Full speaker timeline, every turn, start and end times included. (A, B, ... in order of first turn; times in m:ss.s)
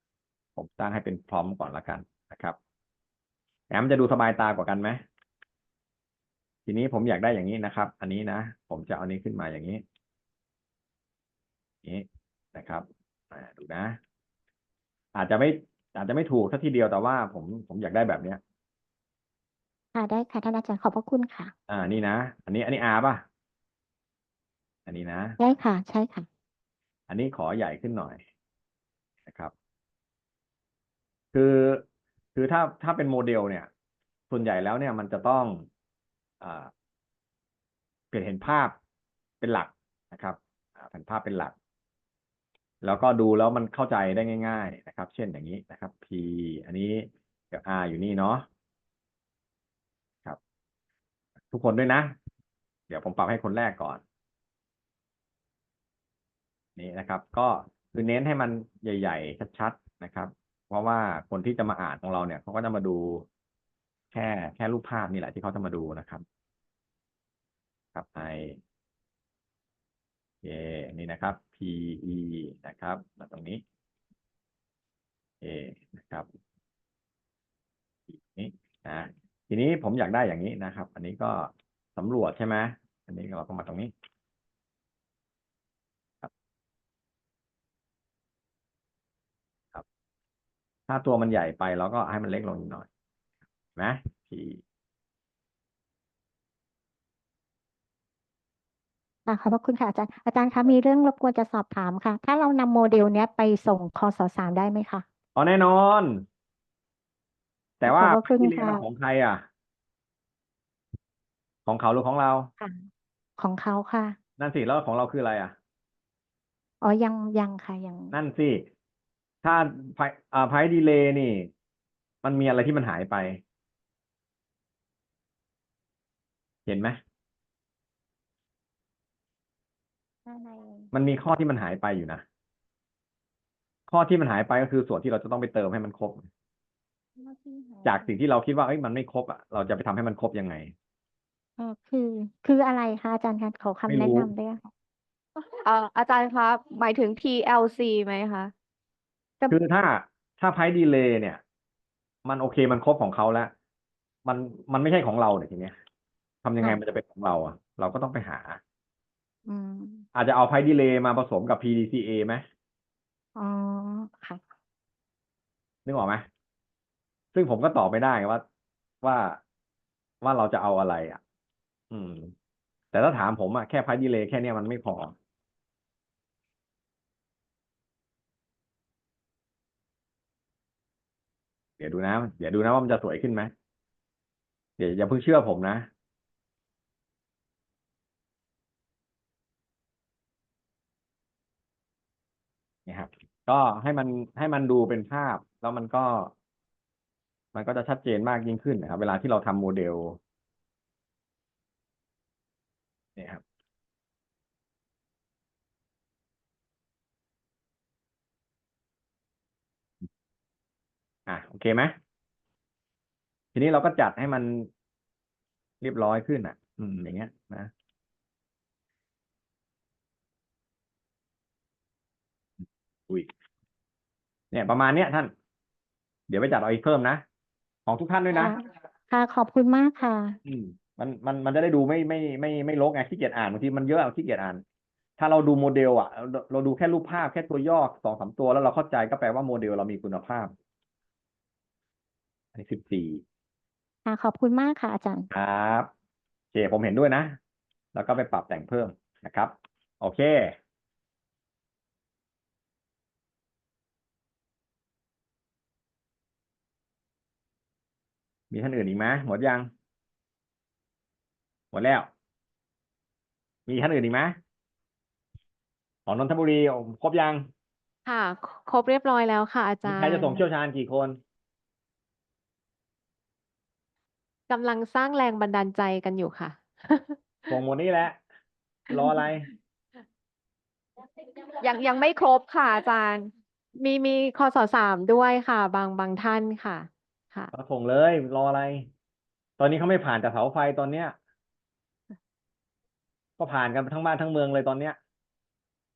0:00.6-0:02.6 A
0:03.7-0:05.0 A
0:06.7-0:09.8 A
0:11.8-0:14.0 A
0:15.1-0:18.4 A
0:19.9-0:21.5 B
0:21.7-0:23.2 A
0:24.9-0:25.4 A
0:25.4-0:26.3 B
0:27.1-0:28.2 A
0:29.3-0:29.5 A
0:31.3-0:31.8 A
0:32.4-0:33.7 A
0:34.3-0:35.7 A
0:36.4-0:36.7 A
0:38.1-0:38.8 A
0:39.4-0:41.5 A
0:42.8-0:48.4 A
0:51.5-0:52.2 A
0:52.9-0:54.0 A
0:56.8-1:03.2 A
1:04.1-1:06.2 A
1:08.0-1:08.6 A
1:10.4-1:13.6 A
1:15.4-1:16.3 A
1:18.1-1:23.9 A
1:30.9-1:32.9 A
1:33.8-1:34.6 A
1:39.3-1:45.0 B
1:45.4-1:46.2 A
1:47.8-1:49.5 A
1:47.8-1:48.8 B
1:51.7-1:52.5 A
1:52.6-1:52.9 B
1:53.4-1:54.2 B
1:54.4-1:55.6 A
1:56.8-1:58.1 B
1:58.1-1:58.7 A
1:59.4-2:01.5 A
2:02.2-2:03.4 A
2:06.7-2:07.0 A
2:10.3-2:10.9 B
2:10.9-2:12.2 A
2:13.9-2:16.3 A
2:17.2-2:18.1 B
2:17.8-2:20.7 A
2:21.6-2:24.7 B
2:23.9-2:24.3 A
2:25.6-2:28.5 C
2:29.5-2:31.4 A
2:32.2-2:33.5 A
2:34.3-2:35.8 A
2:36.4-2:38.6 A
2:39.5-2:40.1 B
2:40.1-2:42.4 A
2:43.4-2:44.4 B
2:45.8-2:46.3 A
2:47.3-2:48.4 A
2:49.0-2:49.4 A
2:50.2-2:51.2 A
2:51.9-2:52.3 A
2:52.9-2:55.1 A
3:01.8-3:03.5 A
3:04.8-3:05.9 A
3:12.9-3:16.3 A
3:17.5-3:20.2 A
3:23.2-3:23.4 A
3:31.3-3:31.9 A
3:33.5-3:34.7 A
3:35.8-3:37.7 A
3:42.6-3:43.3 A
3:44.5-3:45.3 A
3:46.3-3:47.2 A
3:47.9-3:48.5 A
3:48.3-3:50.4 B
3:50.4-3:54.6 A
3:55.2-4:00.5 A
4:02.5-4:03.2 A
4:04.1-4:05.3 B
4:05.3-4:05.9 A
4:06.5-4:07.4 A
4:07.9-4:10.6 A
4:18.5-4:19.7 A
4:21.7-4:22.1 A
4:23.7-4:24.4 A
4:26.1-4:27.5 A
4:28.1-4:30.4 D
4:29.8-4:31.2 A
4:34.5-4:37.6 D
4:37.5-4:38.2 A
4:38.9-4:39.4 D
4:38.9-4:39.5 A
4:41.6-4:43.3 C
4:43.8-4:47.5 D
4:47.5-4:48.9 A
4:49.6-4:51.2 A
4:53.4-4:55.0 A